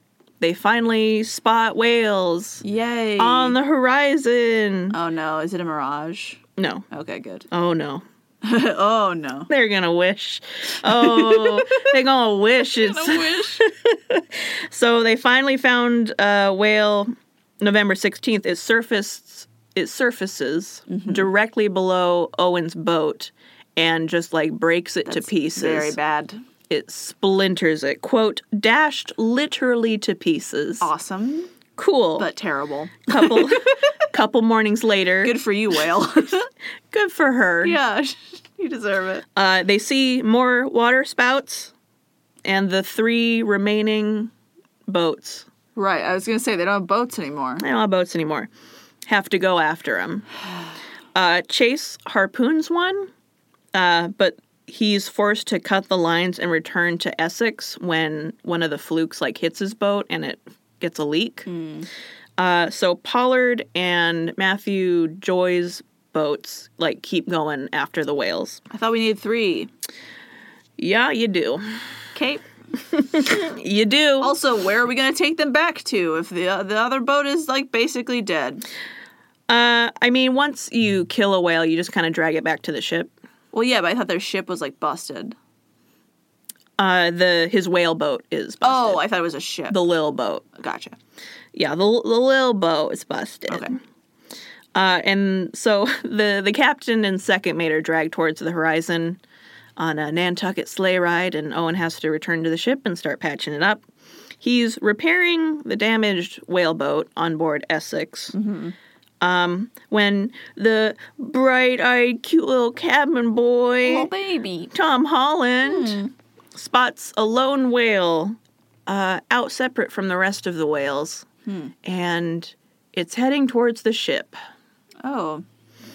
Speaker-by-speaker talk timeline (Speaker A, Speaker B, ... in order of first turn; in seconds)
Speaker A: 0.4-2.6, 3.2-5.0, 6.6-6.9, 7.5-8.0, 9.5-26.0, 26.7-30.9, 31.8-32.3, 33.1-35.4, 36.9-37.8, 39.4-41.7, 42.4-44.3, 44.9-45.5, 47.6-48.5, 49.1-50.3, 51.1-53.1, 53.7-61.5, 62.4-68.6, 70.8-71.8, 72.9-74.3, 79.5-83.1, 86.8-89.0, 89.7-90.5, 91.5-93.8, 94.7-99.2, 99.8-103.8, 104.4-108.3, 109.2-114.1, 114.7-116.0, 116.5-121.3, 121.8-124.4
Speaker B: 2.6-3.6, 4.9-7.5, 8.4-9.5, 10.8-11.9, 12.6-13.7, 20.9-21.3, 25.1-26.4, 30.8-31.5, 32.2-33.8, 35.2-36.5, 37.6-39.2, 45.8-47.6, 61.5-61.9, 68.7-69.7, 72.1-72.4, 74.2-78.6, 83.5-85.4, 88.6-89.8, 90.5-91.0, 93.5-93.8, 108.3-108.8, 113.8-114.7, 115.6-116.1, 121.5-121.7, 125.0-125.4